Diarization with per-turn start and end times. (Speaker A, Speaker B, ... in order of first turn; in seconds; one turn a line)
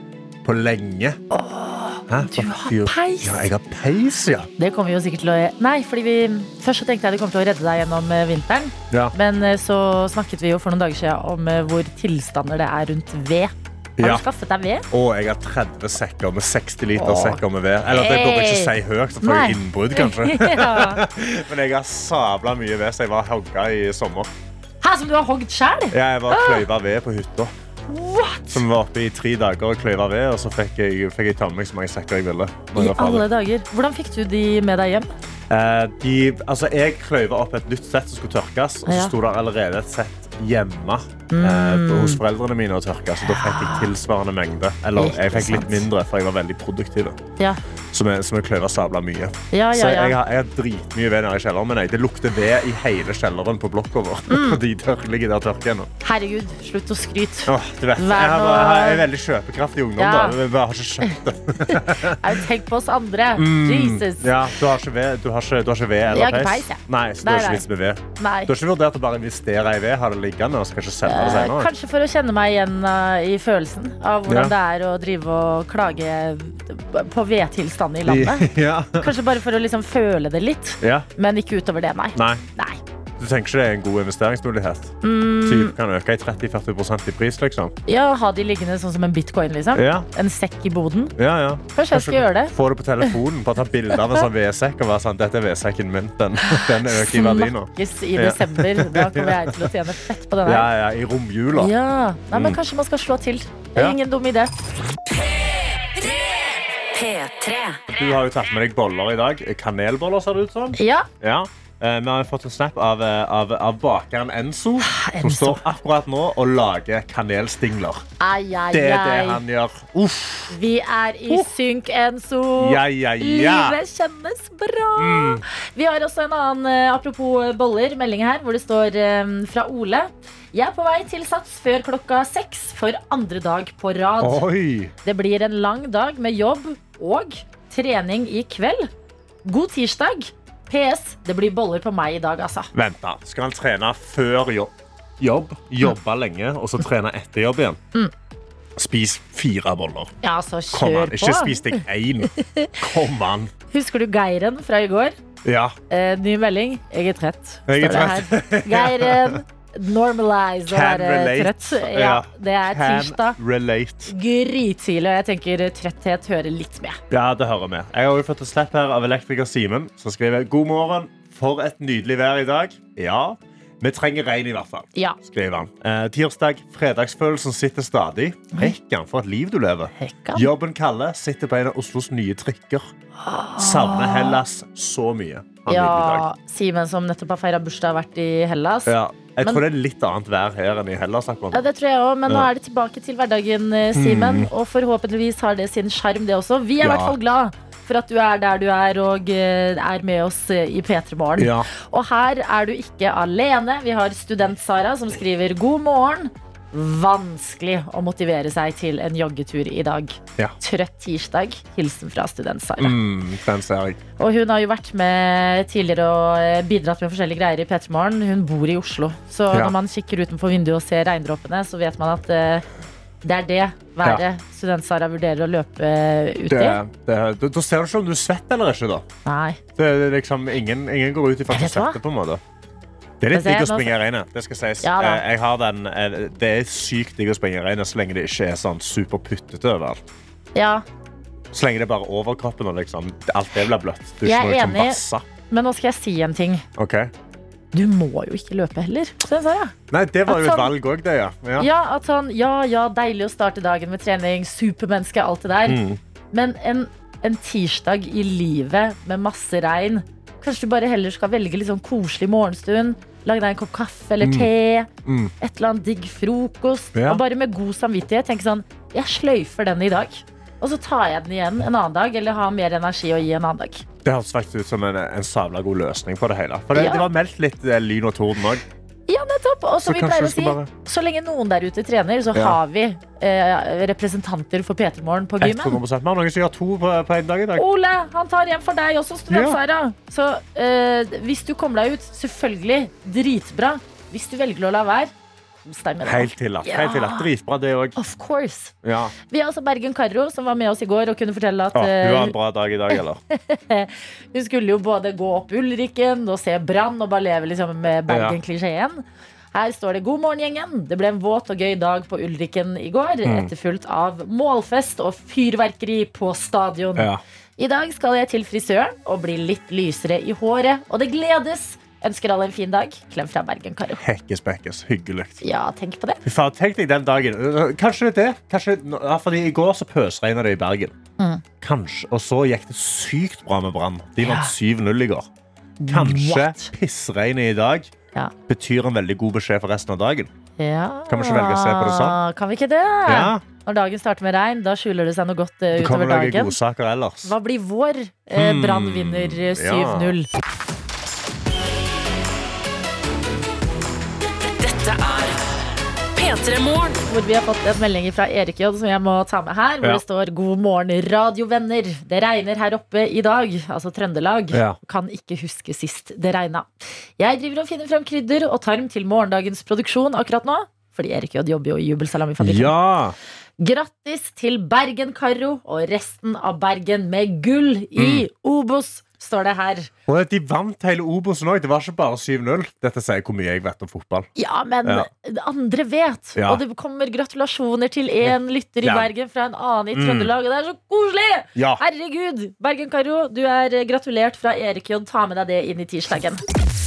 Speaker A: 0.4-1.2
Speaker B: 1.3-3.5
Speaker A: 2.1-4.5
Speaker B: 4.6-14.9
Speaker A: 14.0-14.2
Speaker A: 14.9-24.3
Speaker B: 16.9-21.0
Speaker B: 24.8-26.6
Speaker A: 25.9-27.5
Speaker B: 27.9-28.6
Speaker A: 28.5-33.2
Speaker B: 32.7-35.1
Speaker A: 35.5-47.2
Speaker B: 38.9-39.1
Speaker B: 41.3-42.2
Speaker B: 43.2-43.9
Speaker B: 45.0-45.9
Speaker A: 47.9-55.9
Speaker B: 49.5-50.1
Speaker B: 54.3-54.6
Speaker B: 56.0-59.0
Speaker A: 57.5-62.4
Speaker B: 60.0-60.4
Speaker B: 61.0-64.4
Speaker A: 63.4-71.7
Speaker B: 66.1-67.6
Speaker B: 68.2-68.5
Speaker B: 71.0-82.8
Speaker A: 74.3-74.5
Speaker A: 78.0-79.2
Speaker A: 80.8-81.1
Speaker A: 82.1-82.4
Speaker A: 83.2-87.7
Speaker B: 85.0-85.7
Speaker B: 87.9-91.1
Speaker A: 89.7-90.1
Speaker A: 91.2-99.8
Speaker B: 91.7-92.5
Speaker B: 96.4-100.7
Speaker A: 100.4-101.7
Speaker B: 101.5-104.5
Speaker A: 102.3-102.6
Speaker C: 107.0-107.5
Speaker B: 107.1-107.8
Speaker A: 107.9-118.0
Speaker B: 110.8-111.1
Speaker B: 114.8-115.6
Speaker B: 118.2-119.4
Speaker A: 118.7-120.6
Speaker B: 120.5-134.4
Speaker A: 122.6-123.8
Speaker A: 125.0-125.4
Speaker A: 134.2-134.9
Speaker B: 135.0-138.9
Speaker B: 139.4-142.7
Speaker A: 142.7-147.8
Speaker A: 148.8-150.1
Speaker B: 150.2-152.8
Speaker A: 150.7-153.5
Speaker B: 153.7-155.2
Speaker A: 155.4-155.8
Speaker B: 155.9-163.4
Speaker A: 157.7-159.4
Speaker A: 160.7-164.1
Speaker B: 164.1-167.0
Speaker A: 167.1-182.9
Speaker B: 180.0-180.5
Speaker B: 183.2-184.4
Speaker A: 183.6-186.2
Speaker B: 185.7-189.6
Speaker A: 188.8-191.6
Speaker B: 191.5-213.0
Speaker A: 193.9-194.5
Speaker A: 196.8-197.2
Speaker A: 201.4-201.7
Speaker A: 212.8-214.0
Speaker B: 214.2-222.6
Speaker B: 223.2-226.8
Speaker A: 226.5-229.0
Speaker B: 229.2-229.6
Speaker A: 229.8-232.4
Speaker B: 231.5-232.0
Speaker A: 233.2-240.0
Speaker B: 233.3-233.9
Speaker B: 234.8-235.2
Speaker B: 240.5-240.8
Speaker A: 241.5-245.2
Speaker B: 244.2-246.7
Speaker A: 246.8-247.1
Speaker B: 247.7-249.7
Speaker A: 249.9-251.7
Speaker B: 250.2-250.7
Speaker B: 251.6-255.8
Speaker A: 255.7-256.0
Speaker B: 256.3-273.9
Speaker A: 264.2-264.5
Speaker A: 265.0-265.3
Speaker A: 266.9-267.2
Speaker A: 274.0-278.6
Speaker B: 276.7-277.1
Speaker B: 279.1-285.8
Speaker A: 279.8-280.7
Speaker A: 285.4-287.6
Speaker B: 287.5-297.3
Speaker A: 289.3-289.6
Speaker A: 296.0-297.9
Speaker B: 297.9-302.4
Speaker A: 298.8-299.1
Speaker A: 301.7-303.2
Speaker B: 302.9-309.0
Speaker A: 308.1-308.4
Speaker B: 309.5-324.0
Speaker A: 313.2-313.5
Speaker A: 316.9-317.2
Speaker A: 324.0-325.4
Speaker B: 325.4-326.2
Speaker A: 326.2-330.9
Speaker A: 331.6-335.3
Speaker B: 334.2-334.5
Speaker B: 335.8-336.7
Speaker A: 335.9-337.9
Speaker A: 338.5-340.3
Speaker B: 340.6-346.6
Speaker A: 341.1-342.2
Speaker A: 343.1-343.4
Speaker A: 345.8-347.3
Speaker B: 347.2-350.3
Speaker A: 348.3-350.2
Speaker C: 354.4-355.4
Speaker C: 356.1-357.0
Speaker B: 357.1-372.7
Speaker A: 364.5-364.8
Speaker A: 372.4-373.1
Speaker B: 373.6-379.9
Speaker A: 377.9-378.2
Speaker A: 380.1-384.3
Speaker B: 384.4-396.4
Speaker A: 386.4-386.6
Speaker A: 388.8-389.1
Speaker A: 389.9-390.3
Speaker A: 391.5-391.8